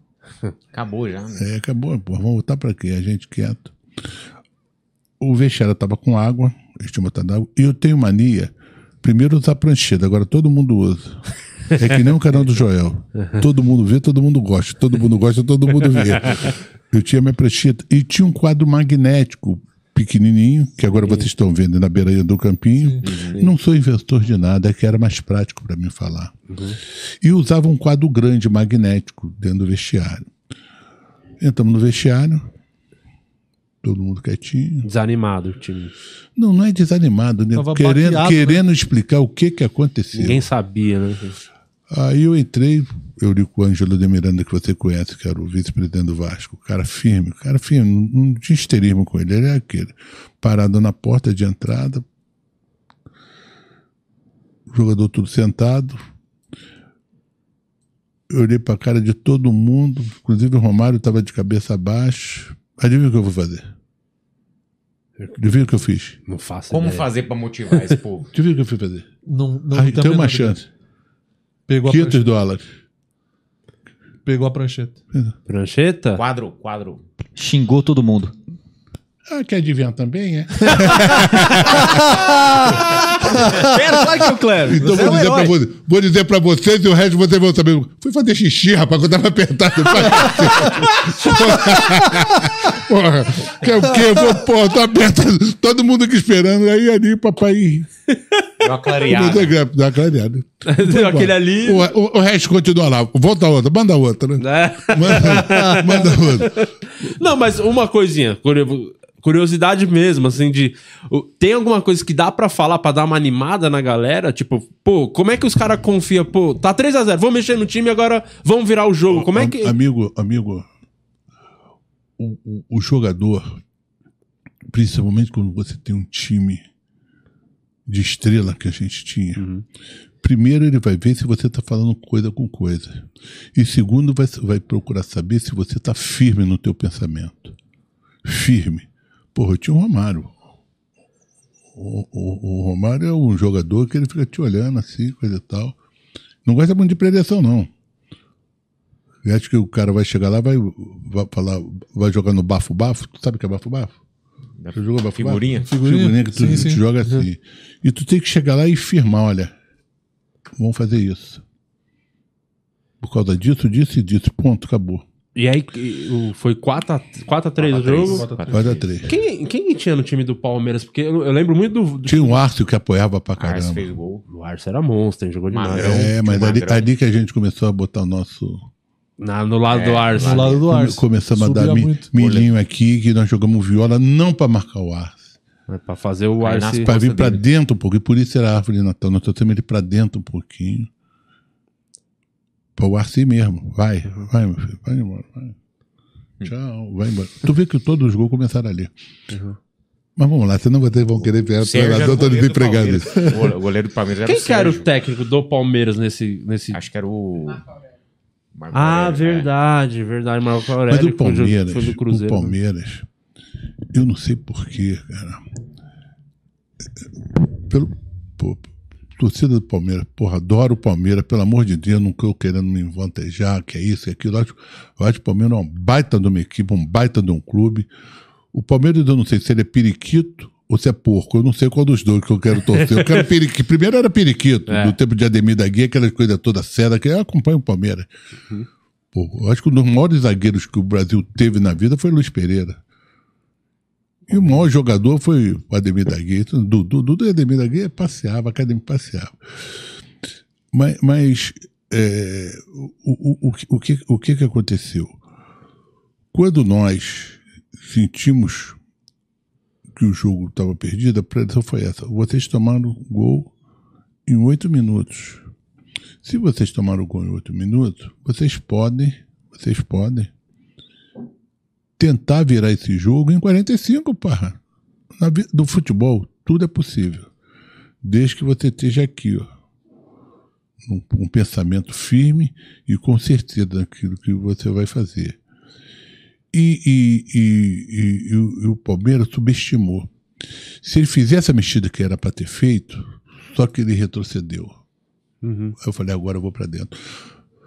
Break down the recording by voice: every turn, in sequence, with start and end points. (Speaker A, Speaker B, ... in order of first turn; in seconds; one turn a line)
Speaker A: 0.7-1.4
Speaker B: 1.4-3.7
Speaker B: 5.2-26.3
Speaker C: 21.0-21.3
Speaker A: 23.1-23.4
Speaker C: 23.1-23.5
Speaker C: 26.5-26.8
Speaker B: 27.2-30.3
Speaker B: 31.4-32.5
Speaker B: 33.8-34.9
Speaker C: 34.8-35.9
Speaker B: 36.4-40.4
Speaker D: 37.5-38.6
Speaker C: 40.1-41.4
Speaker B: 41.9-52.0
Speaker B: 54.7-56.0
Speaker B: 58.3-63.6
Speaker B: 65.3-66.2
Speaker C: 66.3-67.1
Speaker A: 66.7-68.3
Speaker B: 68.3-69.0
Speaker D: 69.2-70.5
Speaker B: 69.7-70.7
Speaker D: 71.7-72.3
Speaker B: 71.8-72.6
Speaker D: 74.2-75.0
Speaker C: 75.5-76.2
Speaker A: 76.1-77.0
Speaker E: 77.3-78.3
Speaker B: 79.3-81.9
Speaker E: 82.3-85.5
Speaker B: 84.7-97.9
Speaker A: 98.6-99.5
Speaker B: 99.0-106.6
Speaker C: 100.7-101.9
Speaker C: 104.4-119.8
Speaker B: 119.1-120.7
Speaker B: 122.2-123.5
Speaker B: 124.7-126.6
Speaker B: 127.9-129.4
Speaker C: 129.3-129.6
Speaker B: 130.2-137.5
Speaker B: 138.2-140.3
Speaker B: 141.7-145.7
Speaker B: 146.4-147.7
Speaker B: 149.2-153.9
Speaker A: 154.6-155.7
Speaker B: 154.7-159.5
Speaker D: 155.7-156.8
Speaker B: 160.6-161.4
Speaker B: 163.0-165.0
Speaker C: 165.3-168.3
Speaker A: 167.6-169.0
Speaker D: 168.0-168.7
Speaker B: 168.5-169.1
Speaker C: 169.0-172.4
Speaker B: 172.1-173.9
Speaker A: 173.4-174.2
Speaker C: 174.3-176.1
Speaker A: 175.5-176.9
Speaker B: 175.7-178.7
Speaker C: 179.2-180.5
Speaker A: 179.7-180.6
Speaker D: 180.2-182.1
Speaker B: 180.6-185.2
Speaker C: 185.7-186.9
Speaker A: 186.4-187.4
Speaker B: 186.8-190.9
Speaker B: 192.8-195.5
Speaker B: 196.4-198.9
Speaker C: 199.3-199.6
Speaker B: 200.2-203.4
Speaker A: 201.2-204.9
Speaker C: 204.2-206.8
Speaker A: 206.7-207.7
Speaker A: 208.5-209.5
Speaker C: 208.7-212.6
Speaker B: 210.9-213.0
Speaker B: 213.9-215.4
Speaker B: 217.6-218.6
Speaker B: 219.2-227.9
Speaker B: 228.5-238.1
Speaker C: 232.7-233.3
Speaker C: 234.7-234.9
Speaker B: 239.1-242.8
Speaker B: 244.3-249.4
Speaker C: 244.3-244.6
Speaker B: 250.7-255.2
Speaker B: 256.3-258.8
Speaker B: 259.9-263.5
Speaker B: 264.2-265.4
Speaker B: 266.2-270.3
Speaker B: 272.0-274.6
Speaker B: 275.2-277.3
Speaker B: 278.0-279.5
Speaker B: 280.8-285.4
Speaker B: 286.5-290.1
Speaker B: 290.8-294.7
Speaker C: 295.4-295.7
Speaker B: 295.8-296.9